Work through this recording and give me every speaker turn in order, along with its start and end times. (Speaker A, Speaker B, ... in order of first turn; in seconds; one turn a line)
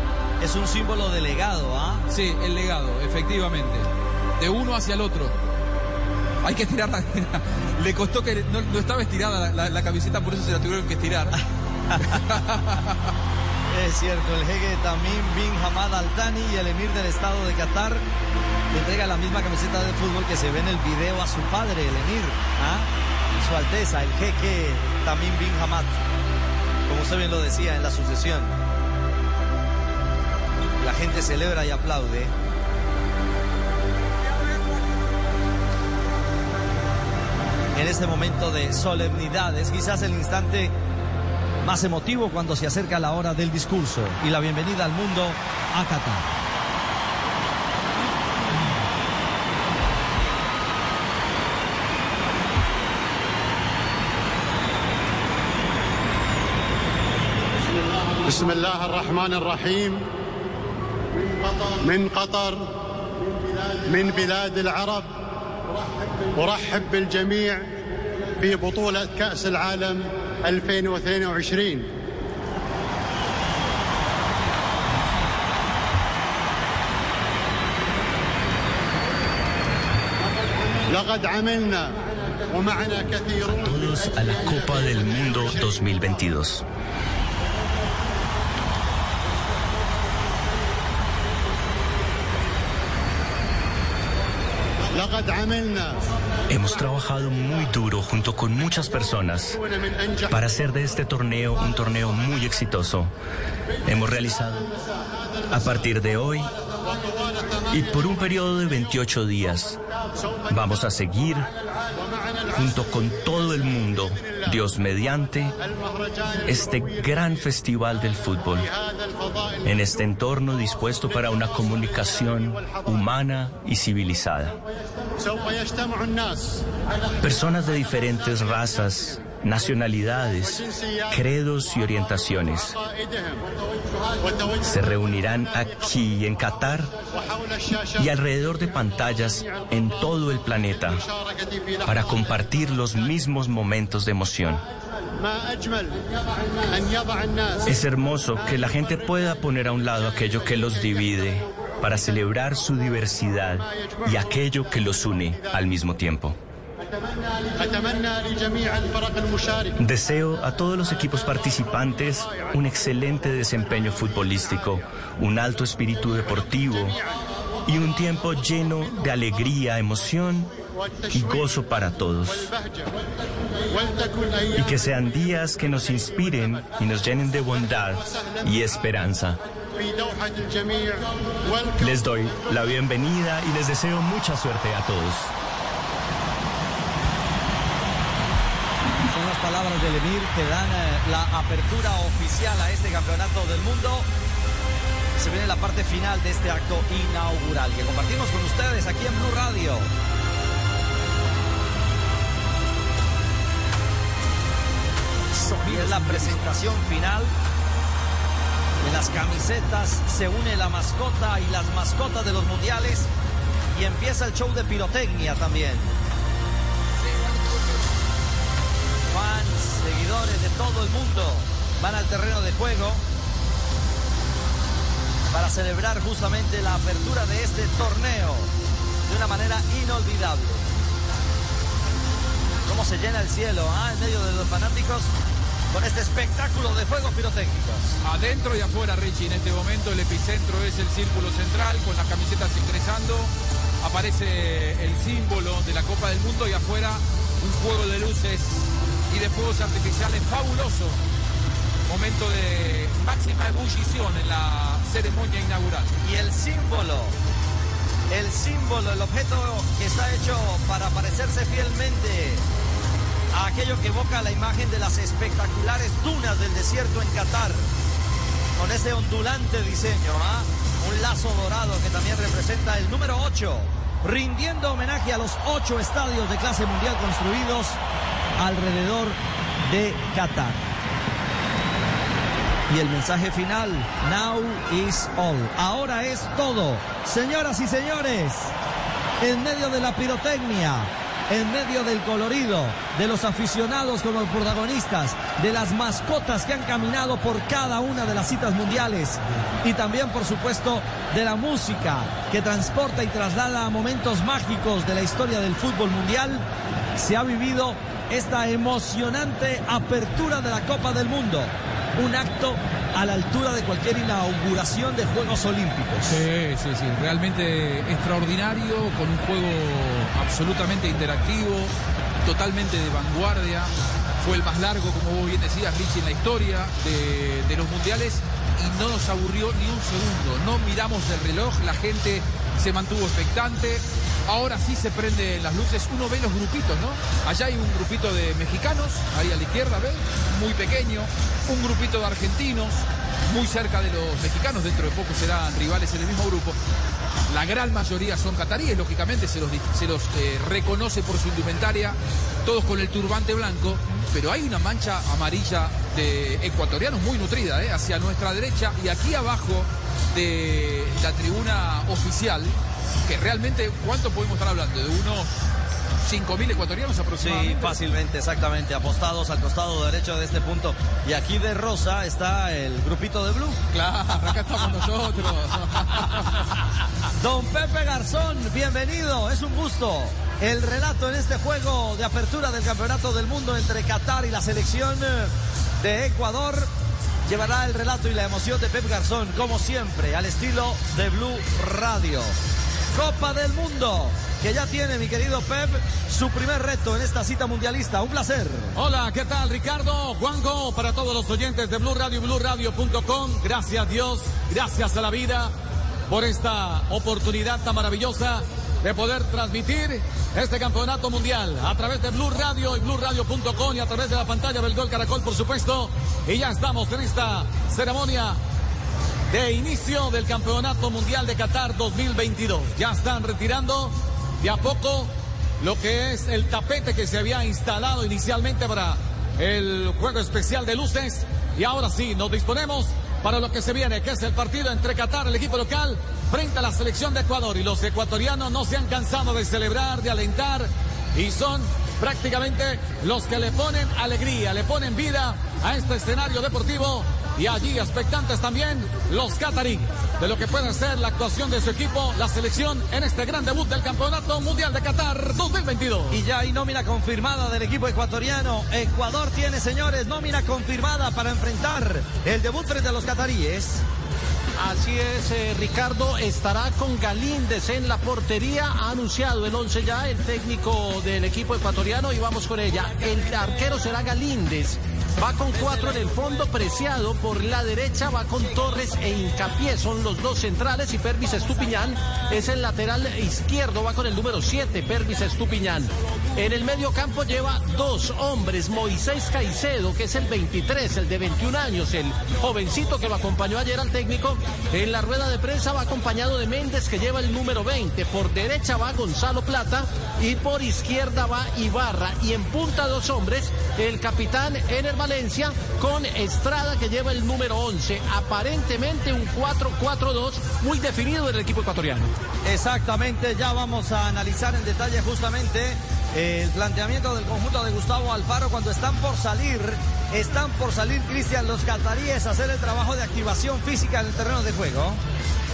Speaker A: 0.4-2.0
Speaker B: 2.1-5.3
Speaker B: 6.4-11.3
Speaker A: 11.3-12.2
Speaker B: 12.1-12.9
Speaker A: 13.7-18.0
Speaker A: 18.7-26.0
Speaker A: 26.9-28.5
Speaker A: 30.8-32.3
Speaker A: 37.7-40.7
Speaker A: 41.6-46.3
Speaker C: 58.2-60.0
Speaker C: 61.6-62.7
Speaker C: 63.8-65.1
Speaker C: 66.2-67.7
Speaker C: 68.4-71.9
Speaker C: 80.9-83.5
Speaker D: 83.5-86.6
Speaker C: 94.9-96.0
Speaker D: 96.5-99.6
Speaker D: 100.3-103.1
Speaker D: 103.8-104.7
Speaker D: 105.5-106.5
Speaker D: 107.7-109.8
Speaker D: 110.5-111.5
Speaker D: 112.5-115.6
Speaker D: 116.4-118.7
Speaker D: 119.6-124.6
Speaker C: 125.2-126.6
Speaker D: 127.2-132.8
Speaker D: 134.6-136.9
Speaker D: 137.9-141.0
Speaker D: 141.8-144.6
Speaker C: 145.2-146.0
Speaker C: 146.6-147.6
Speaker D: 147.7-156.4
Speaker C: 157.6-159.6
Speaker D: 159.8-167.0
Speaker D: 167.7-170.5
Speaker D: 171.1-172.5
Speaker D: 174.5-179.4
Speaker C: 179.8-181.1
Speaker D: 181.8-185.3
Speaker A: 189.1-194.1
Speaker A: 195.2-199.9
Speaker A: 205.6-207.3
Speaker B: 205.9-206.2
Speaker A: 208.8-213.1
Speaker A: 213.7-215.9
Speaker B: 217.2-217.5
Speaker A: 219.1-223.0
Speaker A: 225.3-228.5
Speaker A: 229.1-230.7
Speaker A: 232.7-235.1
Speaker A: 235.7-237.9
Speaker B: 238.0-251.0
Speaker B: 251.9-255.9
Speaker A: 256.0-257.1
Speaker A: 258.1-262.4
Speaker A: 263.3-267.7
Speaker A: 268.6-277.8
Speaker A: 278.4-280.7
Speaker A: 282.7-288.5
Speaker A: 289.2-306.4
Speaker A: 306.9-316.2
Speaker B: 316.1-346.6
Speaker B: 347.3-362.5
Speaker B: 363.1-365.3
Speaker B: 366.0-367.8
Speaker A: 367.2-373.6
Speaker B: 373.7-376.3
Speaker A: 377.2-386.7
Speaker A: 387.2-392.4
Speaker A: 392.9-398.7
Speaker E: 398.8-405.5
Speaker E: 406.1-418.4
Speaker E: 419.3-456.2
Speaker A: 456.1-463.8
Speaker F: 464.6-512.1
Speaker A: 512.4-525.0